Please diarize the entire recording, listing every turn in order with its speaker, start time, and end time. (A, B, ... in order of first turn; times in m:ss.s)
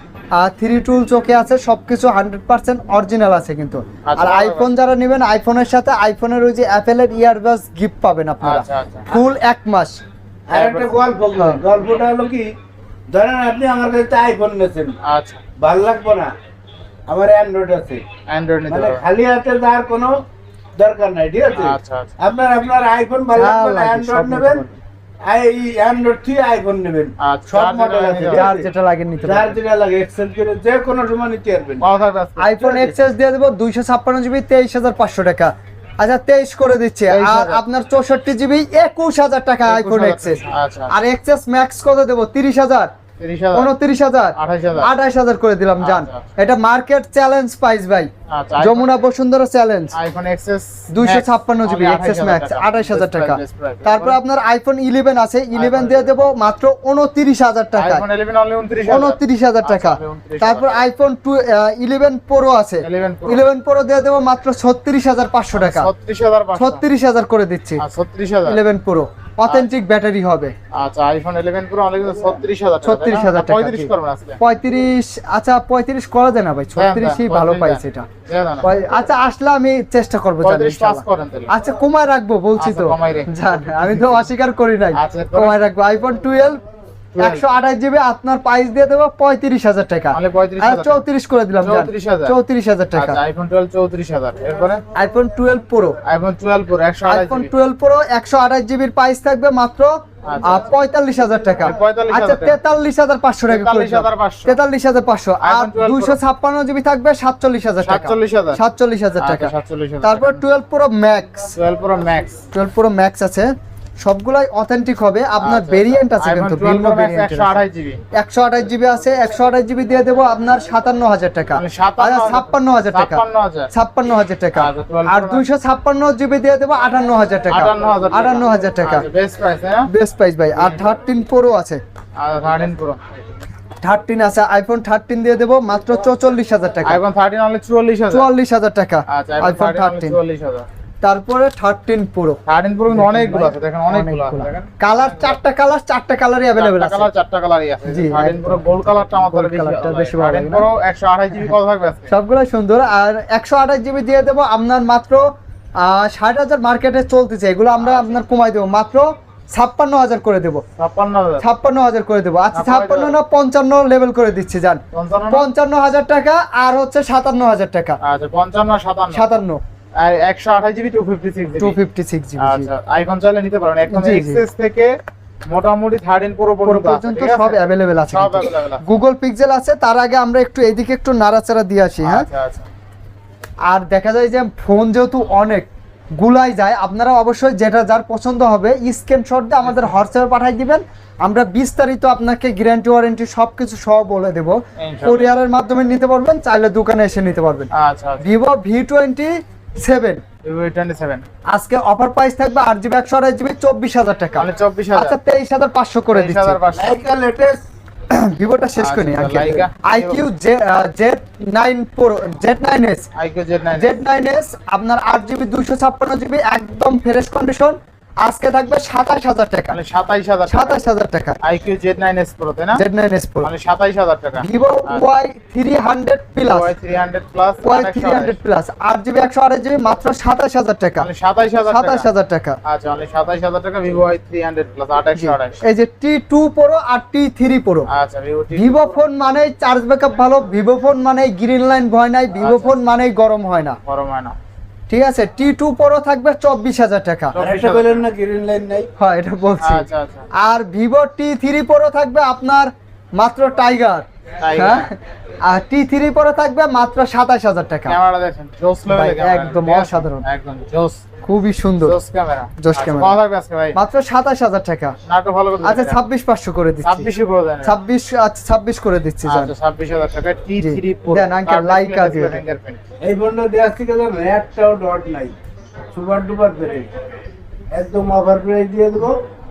0:00.3-0:10.0 A
0:04.0-0:04.7 B
0:08.4-0:09.1 B
0:10.5-0:12.5 C
0:10.5-0:10.9 B
0:13.1-0:15.0 C
0:15.0-0:15.4 B
0:15.6-0:16.3 C
0:17.1-0:18.0 C
0:18.3-0:19.0 B
0:18.7-0:20.2 C
0:20.8-0:24.6 C
0:21.6-0:22.1 B
0:23.4-0:24.8 A
0:25.2-0:28.7 C
0:27.2-0:28.5 B
0:28.3-0:29.5 A
0:29.2-0:31.8 C
0:31.8-0:32.5 B
0:32.4-0:42.9 A
0:32.6-0:33.0 C
0:37.1-0:37.6 B
0:39.7-0:40.9 B
0:43.2-0:43.7 B
0:43.5-0:50.0 A
0:44.4-0:44.9 B
0:45.8-0:46.2 B
0:48.3-0:48.9 B
0:49.9-0:54.2 B
0:50.9-0:58.0 A
0:55.5-0:56.1 B
0:57.8-1:00.8 B
0:58.8-1:05.9 A
1:02.8-1:03.4 B
1:05.5-1:06.8 B
1:06.6-1:07.8 A
1:07.8-1:08.6 B
1:08.4-1:10.5 A
1:10.7-1:14.4 B
1:12.8-1:18.1 A
1:16.8-1:18.8 B
1:18.6-1:26.6 A
1:20.4-1:21.5 B
1:22.6-1:24.3 B
1:24.9-1:25.6 B
1:27.1-1:27.4 B
1:27.2-1:33.2 A
1:30.1-1:31.0 B
1:31.6-1:32.4 B
1:33.0-1:34.8 B
1:34.9-1:36.0 A
1:36.0-1:37.5 B
1:37.0-1:49.5 A
1:40.2-1:40.6 B
1:41.6-1:42.6 B
1:43.5-1:44.6 B
1:45.4-1:46.2 B
1:47.8-1:48.6 B
1:49.2-1:50.4 B
1:50.0-1:51.5 A
1:51.6-1:52.4 B
1:52.5-1:57.6 A
1:55.4-1:58.0 B
1:58.1-2:09.0 A
2:01.5-2:03.7 B
2:04.5-2:05.4 B
2:07.5-2:09.9 B
2:09.9-2:11.8 A
2:12.2-2:13.0 B
2:13.8-2:17.0 A
2:16.8-2:18.3 B
2:18.1-2:20.2 A
2:19.1-2:20.6 B
2:21.0-2:22.4 A
2:22.5-2:25.4 B
2:22.9-2:27.1 A
2:26.6-2:32.1 B
2:27.9-2:28.7 A
2:29.3-2:30.7 A
2:32.1-2:40.6 A
2:37.8-2:38.2 B
2:40.8-2:41.4 B
2:41.4-2:48.0 A
2:42.5-2:43.2 B
2:44.9-2:45.4 B
2:48.0-2:49.2 B
2:49.1-2:49.6 A
2:50.0-2:51.8 B
2:51.6-2:52.7 A
2:52.4-2:54.9 B
2:53.9-2:54.4 A
2:55.4-2:57.6 B
2:56.6-3:02.3 A
2:58.1-2:58.8 B
3:02.0-3:02.7 B
3:03.7-3:20.2 A
3:14.8-3:15.3 B
3:17.7-3:18.2 B
3:20.4-3:21.2 B
3:21.5-3:26.6 A
3:24.4-3:25.2 B
3:26.1-3:26.9 B
3:26.7-3:27.6 C
3:28.1-3:33.1 A
3:28.8-3:30.2 B
3:33.1-3:34.0 B
3:33.8-3:39.8 A
3:39.7-3:40.7 B
3:40.5-3:41.4 A
3:41.4-3:42.8 B
3:42.8-3:43.5 A
3:43.4-3:45.0 B
3:44.4-3:46.7 A
3:46.4-3:48.4 B
3:47.6-3:51.1 A
3:51.0-3:52.1 B
3:51.7-3:52.6 A
3:52.6-3:55.6 B
3:55.2-3:57.9 A
3:57.9-3:59.0 B
3:58.5-4:03.8 A
4:02.4-4:02.8 B
4:03.9-4:04.4 B
4:04.9-4:07.4 A
4:07.3-4:08.0 B
4:07.4-4:08.9 C
4:09.0-4:15.0 A
4:09.6-4:10.3 B
4:14.4-4:14.9 B
4:15.5-4:18.0 A
4:17.9-4:21.0 B
4:18.9-4:20.2 A
4:21.2-4:22.0 A
4:21.8-4:23.8 B
4:22.6-4:23.1 A
4:23.7-4:25.0 A
4:25.1-4:26.0 B
4:25.6-4:27.1 A
4:26.8-4:27.7 B
4:27.6-4:29.5 A
4:29.2-4:32.8 B
4:30.6-4:32.4 A
4:33.0-4:35.4 C
4:35.9-4:36.9 C
4:37.7-4:39.2 C